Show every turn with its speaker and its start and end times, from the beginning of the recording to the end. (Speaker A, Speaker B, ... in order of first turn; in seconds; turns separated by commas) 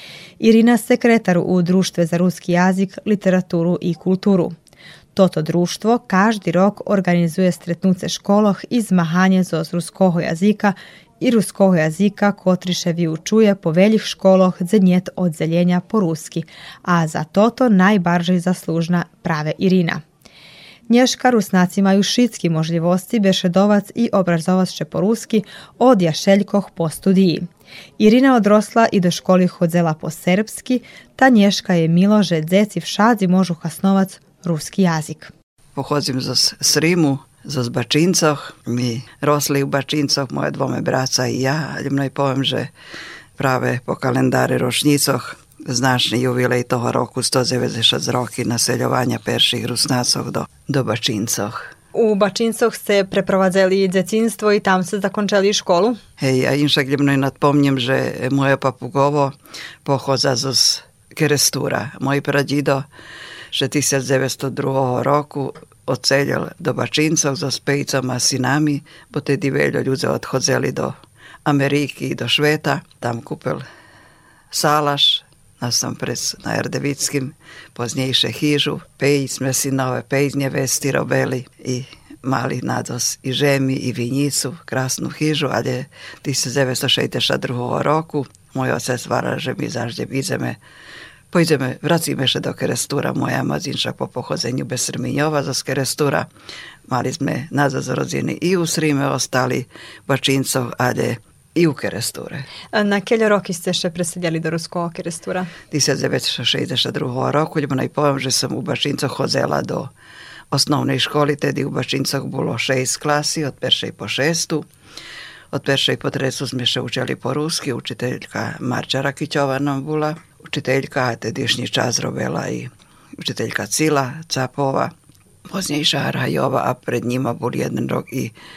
Speaker A: 0.4-4.5, Speaker A: 5.1-20.0, Speaker A: 20.9-27.5, Speaker A: 28.0-35.3, Speaker B: 35.7-42.7, Speaker B: 43.4-51.7, Speaker A: 51.9-56.0, Speaker B: 56.2-62.9, Speaker B: 63.5-73.6, Speaker B: 74.5-90.6, Speaker B: 91.3-96.3, Speaker B: 96.9-102.5, Speaker A: 102.7-105.5, Speaker B: 105.7-109.9, Speaker B: 110.5-114.7, Speaker B: 115.5-124.9, Speaker B: 125.5-128.3